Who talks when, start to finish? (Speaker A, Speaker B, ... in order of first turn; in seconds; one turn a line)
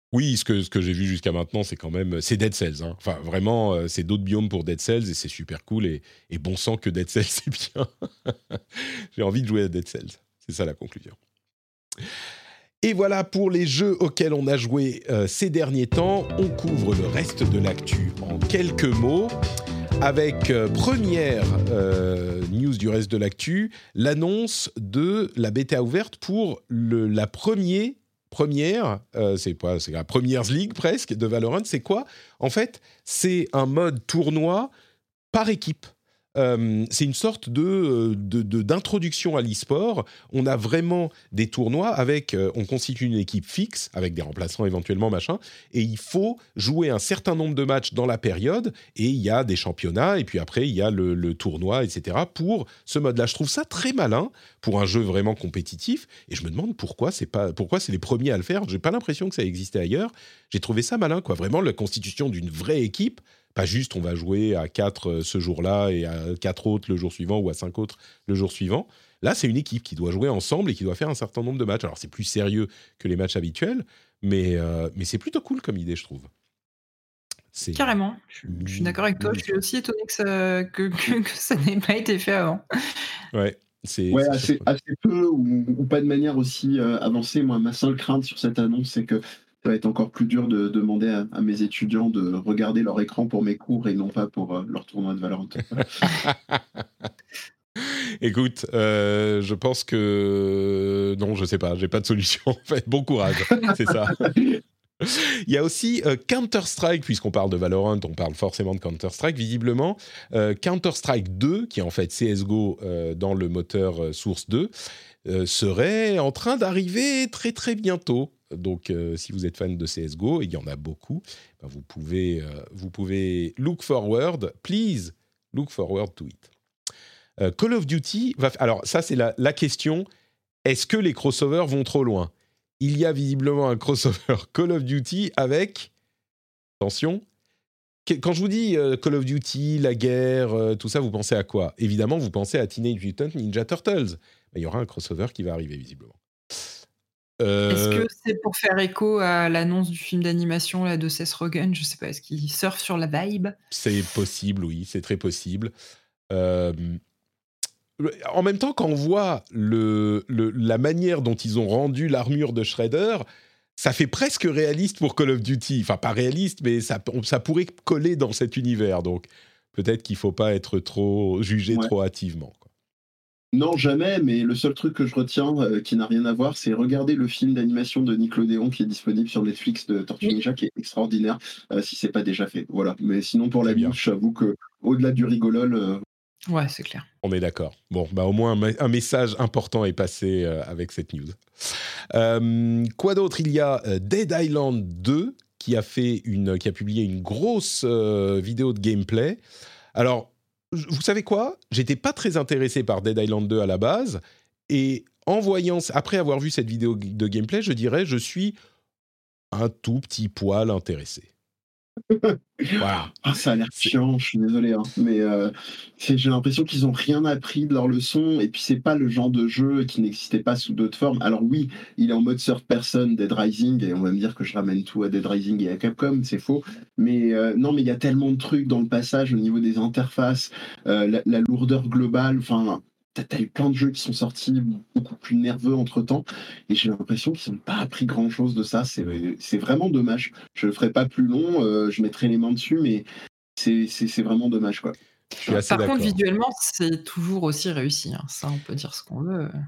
Speaker A: 0.1-11.2
Speaker A: 12.8-19.4
Speaker A: 20.0-34.7
Speaker A: 35.3-76.3
Speaker A: 77.5-77.9
Speaker B: 77.7-82.6
Speaker A: 78.5-79.6
Speaker A: 83.3-84.7
Speaker C: 84.1-95.9
Speaker A: 96.1-96.8
Speaker A: 97.8-114.7
Speaker A: 115.2-126.5
Speaker A: 127.4-130.1
Speaker A: 130.6-135.9
Speaker A: 136.8-137.2
Speaker A: 138.1-146.2
Speaker A: 147.4-148.1
Speaker B: 147.7-153.6
Speaker A: 153.7-155.7
Speaker A: 156.3-157.0
Speaker A: 158.0-163.2
Speaker A: 163.8-172.7
Speaker C: 173.5-186.0
Speaker A: 183.6-183.9
Speaker B: 186.5-187.1
Speaker A: 187.2-199.4
Speaker A: 199.9-208.6
Speaker A: 209.5-211.3
Speaker C: 212.1-243.1
Speaker A: 212.8-213.2
Speaker C: 243.6-245.6
Speaker A: 245.4-246.2
Speaker B: 245.6-249.5